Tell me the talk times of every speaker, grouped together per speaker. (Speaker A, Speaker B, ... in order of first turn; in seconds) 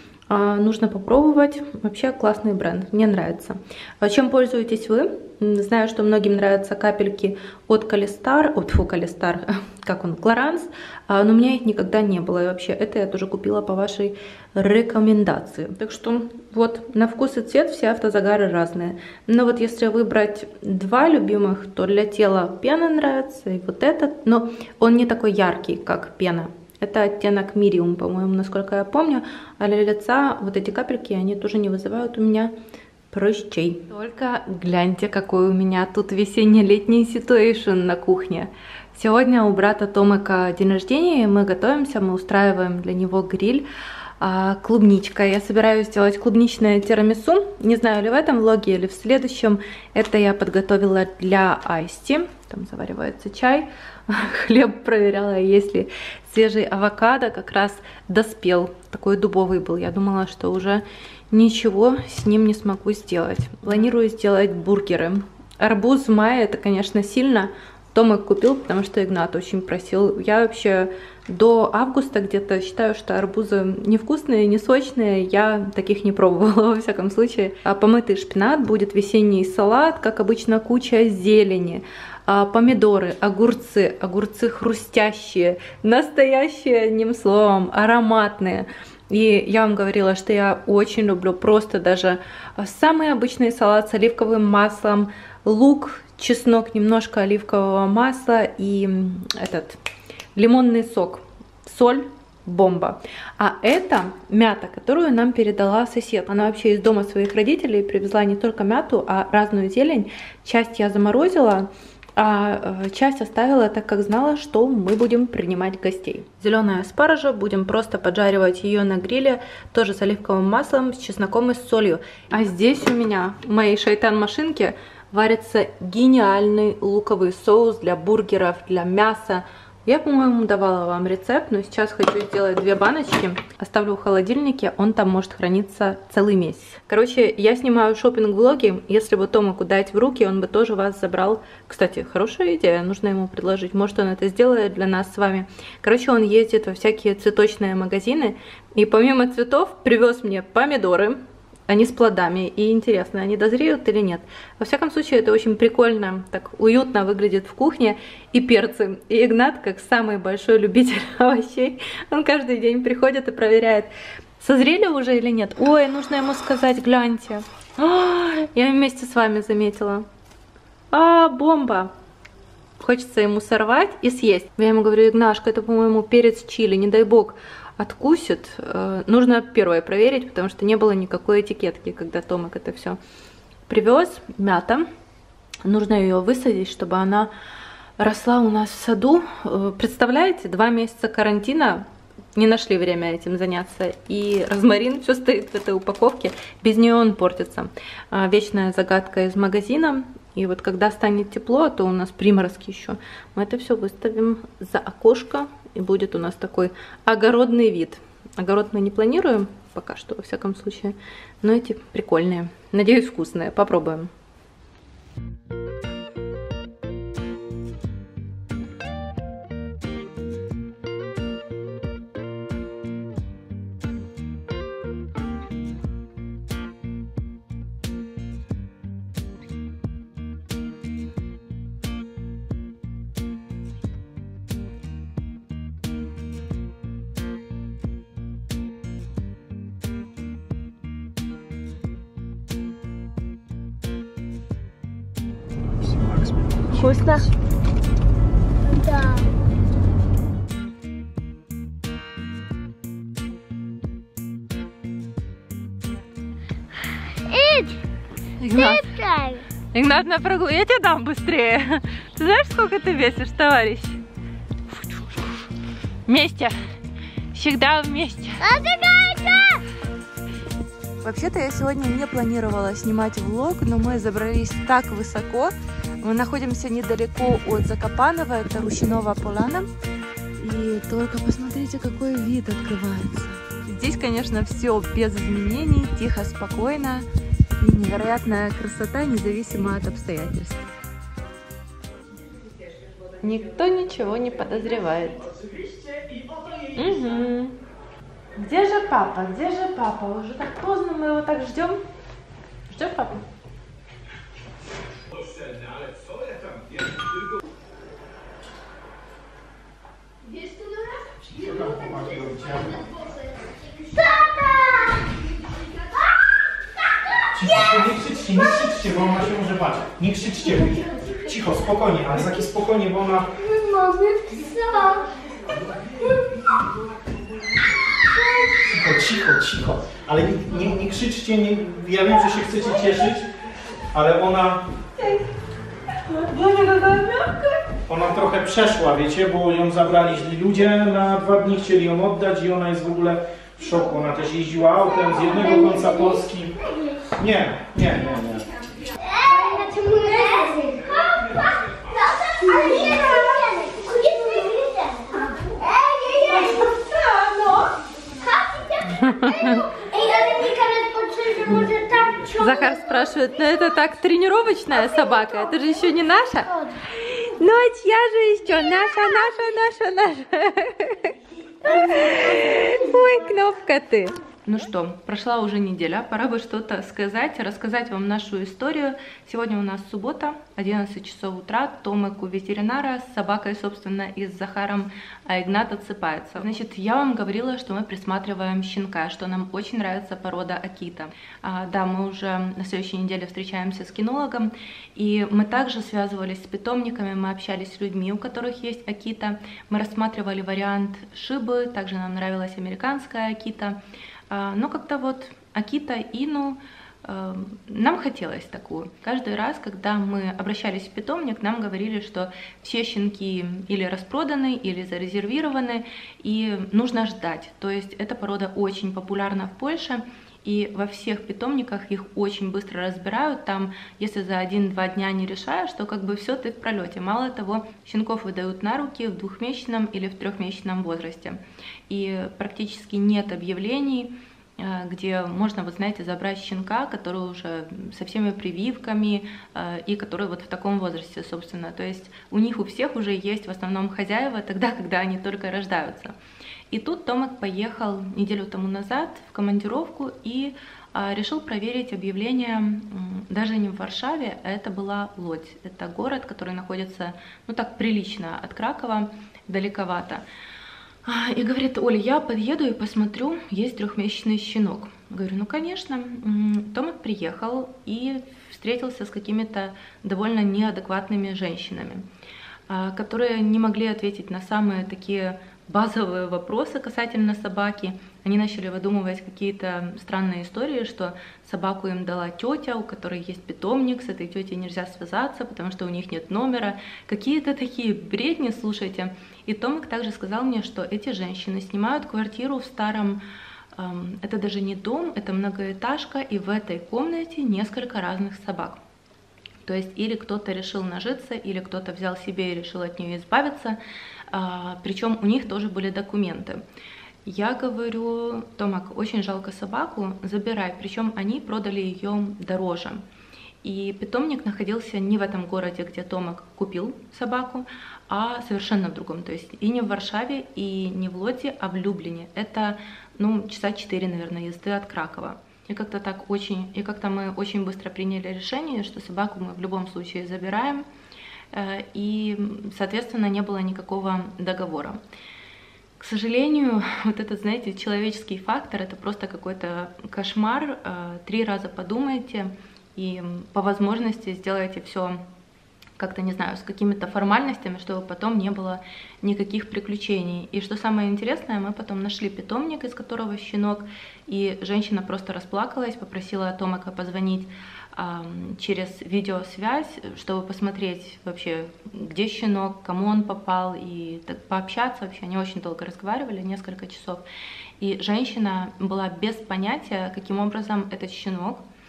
Speaker A: 0.3-32.5, 33.1-43.7, 44.2-99.8, 100.3-151.2, 151.7-170.1, 170.9-171.9, 172.8-183.0, 183.7-184.9, 185.7-187.3, 188.0-214.1, 246.8-247.2, 258.4-258.9, 259.7-264.0, 264.9-265.2, 266.1-266.6, 267.3-268.4, 271.0-279.7, 280.4-287.1, 287.6-290.6, 293.2-295.2, 296.8-297.6, 298.4-301.8, 302.7-303.2, 335.0-335.2, 336.0-337.7, 356.8-357.5, 358.9-359.7, 362.4-403.8, 404.3-446.1, 446.7-460.2, 461.1-472.1, 472.7-493.2, 493.8-498.8, 499.6-503.8, 504.3-506.6, 507.2-513.0, 513.6-530.9, 531.5-535.0, 536.0-545.2, 546.0-567.2, 567.8-571.6
Speaker B: 245.8-246.3, 311.3-312.8, 317.3-323.3, 328.6-333.3, 333.9-334.7, 337.9-346.6, 347.2-348.5
Speaker C: 248.6-249.3, 257.3-257.8, 258.5-259.4, 268.4-269.6, 310.3-311.2, 312.8-315.3, 317.2-317.8, 323.4-325.1, 326.0-326.4, 328.1-328.6, 345.2-347.1, 349.0-356.9, 358.2-363.0